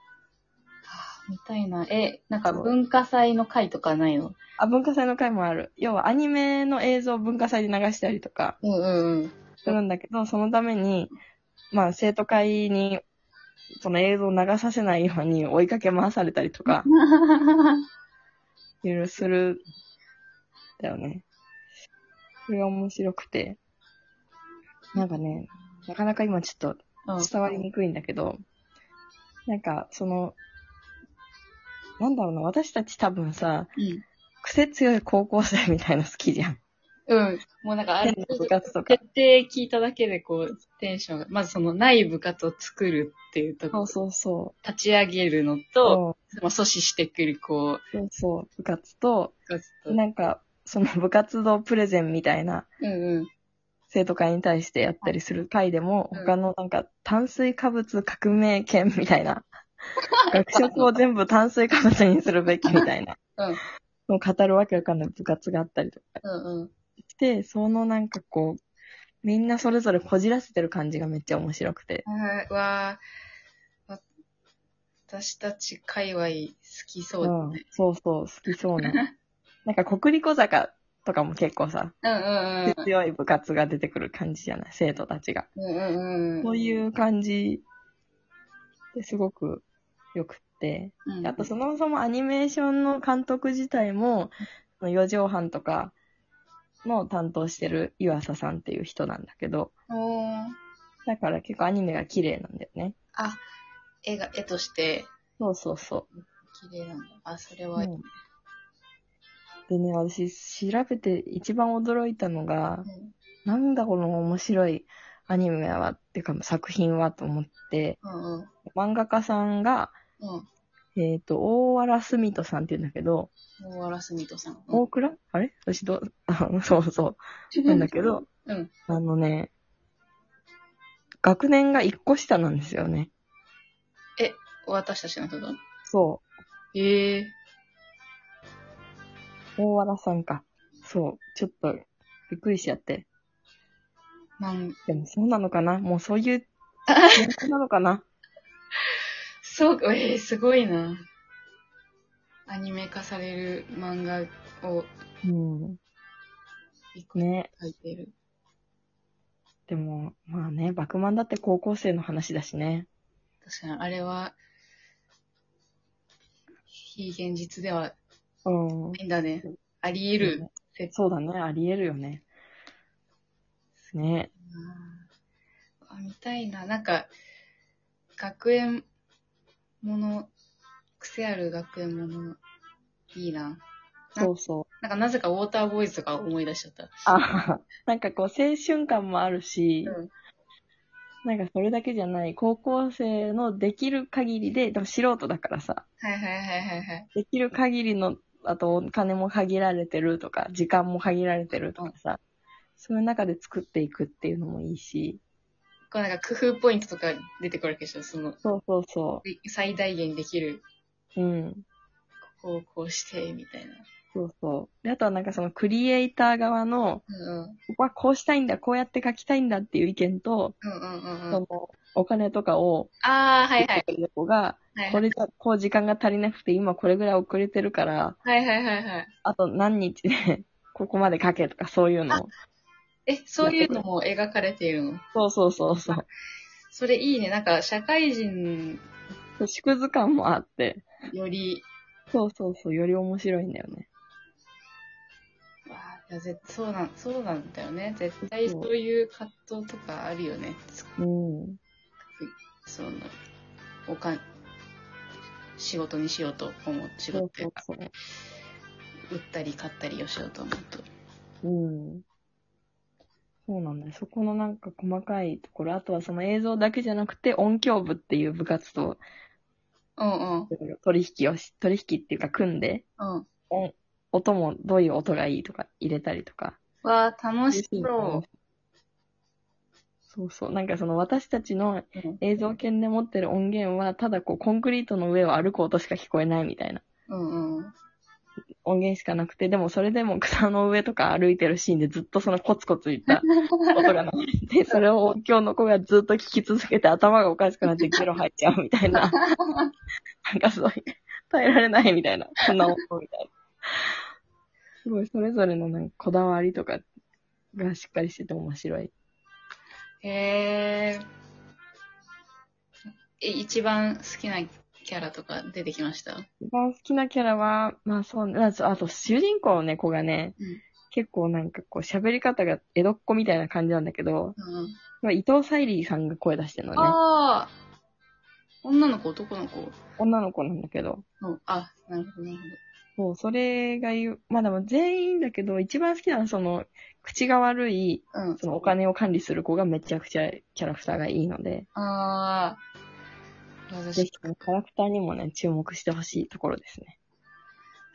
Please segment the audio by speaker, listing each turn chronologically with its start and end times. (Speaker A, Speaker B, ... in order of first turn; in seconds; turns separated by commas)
Speaker A: 0.9-4.3, Speaker B: 2.4-2.7, Speaker B: 4.6-8.6, Speaker A: 8.6-9.8, Speaker B: 9.6-11.1, Speaker B: 11.7-13.0, Speaker B: 13.8-16.9, Speaker A: 16.8-17.8, Speaker B: 18.8-19.6, Speaker B: 20.8-21.2, Speaker B: 22.5-23.6, Speaker B: 24.9-28.4, Speaker A: 27.0-27.3, Speaker B: 29.5-30.4, Speaker B: 32.0-33.7, Speaker A: 33.8-34.0, Speaker B: 34.4-36.6, Speaker A: 37.1-43.9, Speaker B: 38.0-39.0, Speaker B: 43.7-44.5, Speaker A: 44.6-47.8, Speaker B: 45.8-46.2, Speaker B: 47.9-49.3, Speaker A: 49.5-50.0, Speaker B: 49.9-52.7, Speaker A: 52.8-53.3, Speaker B: 53.9-59.5, Speaker B: 60.3-63.2, Speaker A: 60.4-60.9, Speaker A: 62.7-63.6, Speaker B: 64.1-66.2, Speaker A: 66.2-66.7, Speaker B: 67.1-68.6, Speaker B: 69.2-72.0, Speaker A: 72.0-73.0, Speaker A: 75.1-77.6, Speaker B: 77.2-79.0, Speaker A: 78.8-79.1, Speaker B: 79.6-81.9, Speaker A: 82.0-82.9, Speaker B: 82.6-85.5, Speaker A: 85.5-86.5, Speaker B: 86.4-87.6, Speaker B: 88.9-95.9, Speaker A: 91.0-91.5, Speaker B: 96.8-99.7, Speaker A: 99.9-100.5, Speaker B: 101.0-103.0, Speaker A: 103.1-103.4, Speaker A: 104.0-105.1, Speaker B: 105.4-106.1, Speaker A: 106.2-107.9, Speaker B: 107.8-108.0, Speaker B: 109.7-112.9, Speaker A: 112.8-113.1, Speaker B: 113.4-118.0, Speaker A: 118.0-118.5, Speaker B: 118.7-120.0, Speaker A: 120.2-120.4, Speaker B: 121.0-123.3, Speaker A: 123.6-124.8, Speaker B: 124.7-128.3, Speaker A: 128.4-128.7, Speaker B: 128.9-129.5, Speaker B: 131.2-133.1, Speaker A: 134.2-135.6, Speaker B: 135.9-136.2, Speaker A: 136.7-137.3, Speaker B: 139.6-143.1, Speaker A: 144.4-144.8, Speaker B: 144.9-146.5, Speaker B: 147.1-148.0, Speaker A: 149.4-151.0, Speaker A: 152.5-154.9, Speaker B: 155.2-155.8, Speaker A: 156.9-158.1, Speaker B: 157.1-157.5, Speaker B: 159.7-162.9, Speaker A: 163.4-164.3, Speaker A: 166.8-167.9, Speaker B: 168.4-169.5, Speaker A: 168.9-170.9, Speaker B: 170.2-172.2, Speaker B: 173.9-174.3, Speaker A: 174.4-175.1, Speaker A: 175.8-177.1, Speaker A: 178.2-178.9, Speaker A: 179.8-180.3, Speaker A: 181.0-182.4, Speaker A: 183.1-183.6, Speaker A: 184.1-187.0, Speaker B: 184.2-184.7, Speaker B: 187.1-190.0, Speaker B: 191.2-195.8, Speaker A: 196.0-197.1, Speaker B: 197.1-202.2, Speaker B: 202.8-205.2, Speaker A: 205.9-208.4, Speaker B: 208.4-209.2, Speaker A: 209.2-210.6, Speaker B: 211.2-211.6, Speaker A: 212.4-213.8, Speaker B: 214.1-217.0, Speaker A: 217.1-217.6, Speaker B: 217.7-220.5, Speaker A: 220.6-221.4, Speaker B: 221.3-222.9, Speaker A: 223.0-223.9, Speaker B: 223.6-228.2, Speaker A: 224.7-225.0, Speaker A: 228.2-229.1, Speaker B: 229.2-232.3, Speaker A: 233.1-235.0, Speaker B: 233.4-233.8, Speaker B: 235.1-236.0, Speaker A: 236.7-238.8, Speaker B: 239.4-240.9, Speaker A: 241.1-241.7, Speaker B: 242.1-243.9, Speaker A: 245.7-250.9, Speaker B: 248.2-248.7, Speaker B: 251.0-251.6, Speaker A: 252.1-253.1, Speaker A: 253.9-254.2, Speaker A: 255.6-257.6, Speaker B: 257.1-257.9, Speaker A: 259.1-260.9, Speaker B: 261.4-262.0, Speaker B: 263.5-269.0, Speaker A: 270.0-270.5, Speaker B: 270.5-272.8, Speaker A: 273.0-273.3, Speaker B: 273.5-276.6, Speaker A: 276.8-278.2, Speaker B: 277.5-278.2, Speaker B: 280.1-286.8, Speaker A: 287.1-287.7, Speaker B: 288.6-299.2, Speaker A: 293.1-293.8, Speaker A: 297.7-298.0, Speaker A: 299.1-299.7, Speaker B: 300.2-303.9, Speaker B: 304.8-306.9, Speaker B: 307.5-308.9, Speaker A: 310.0-311.0, Speaker A: 313.2-316.3, Speaker B: 316.4-320.4, Speaker B: 320.9-324.4, Speaker A: 324.4-324.8, Speaker B: 325.0-327.0, Speaker A: 326.8-327.5, Speaker A: 328.6-329.8, Speaker B: 330.0-331.0, Speaker A: 331.2-332.6, Speaker B: 333.0-341.7, Speaker A: 338.1-338.4, Speaker A: 341.7-342.6, Speaker A: 343.7-344.3, Speaker B: 343.9-346.9